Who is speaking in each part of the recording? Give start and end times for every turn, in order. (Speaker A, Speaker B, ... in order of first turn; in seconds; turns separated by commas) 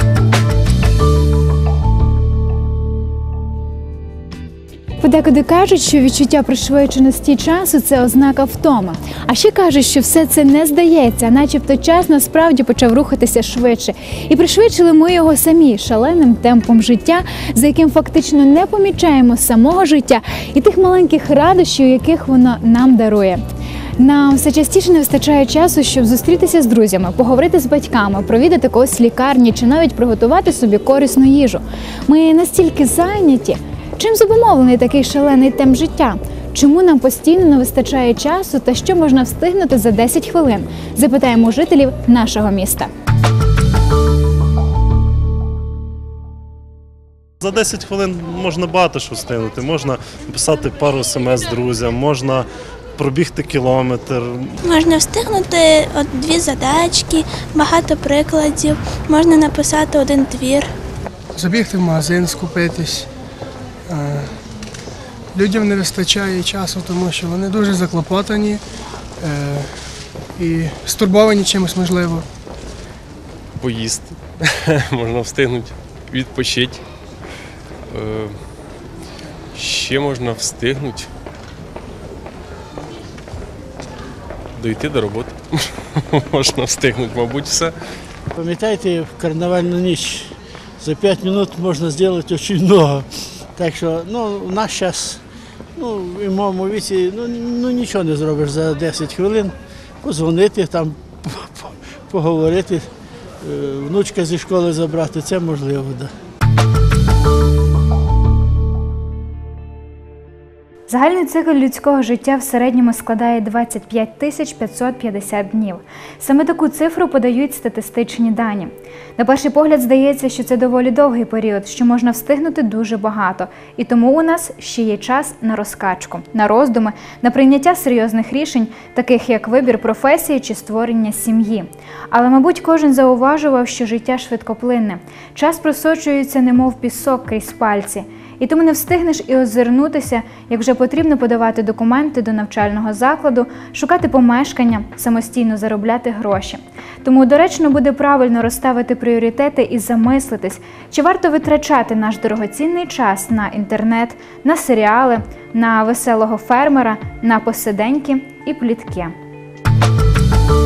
Speaker A: 5.0-23.4, Speaker A: 24.0-42.9, Speaker B: 47.4-54.6, Speaker C: 54.6-60.7, Speaker D: 61.4-63.1, Speaker D: 63.9-64.3, Speaker D: 65.3-68.6, Speaker D: 69.2-69.8, Speaker D: 70.3-72.3, Speaker E: 73.6-76.8, Speaker E: 77.9-78.5, Speaker E: 79.5-81.1, Speaker E: 84.6-87.8, Speaker F: 88.4-95.2, Speaker F: 95.8-102.9, Speaker F: 103.4-106.1, Speaker A: 110.9-159.1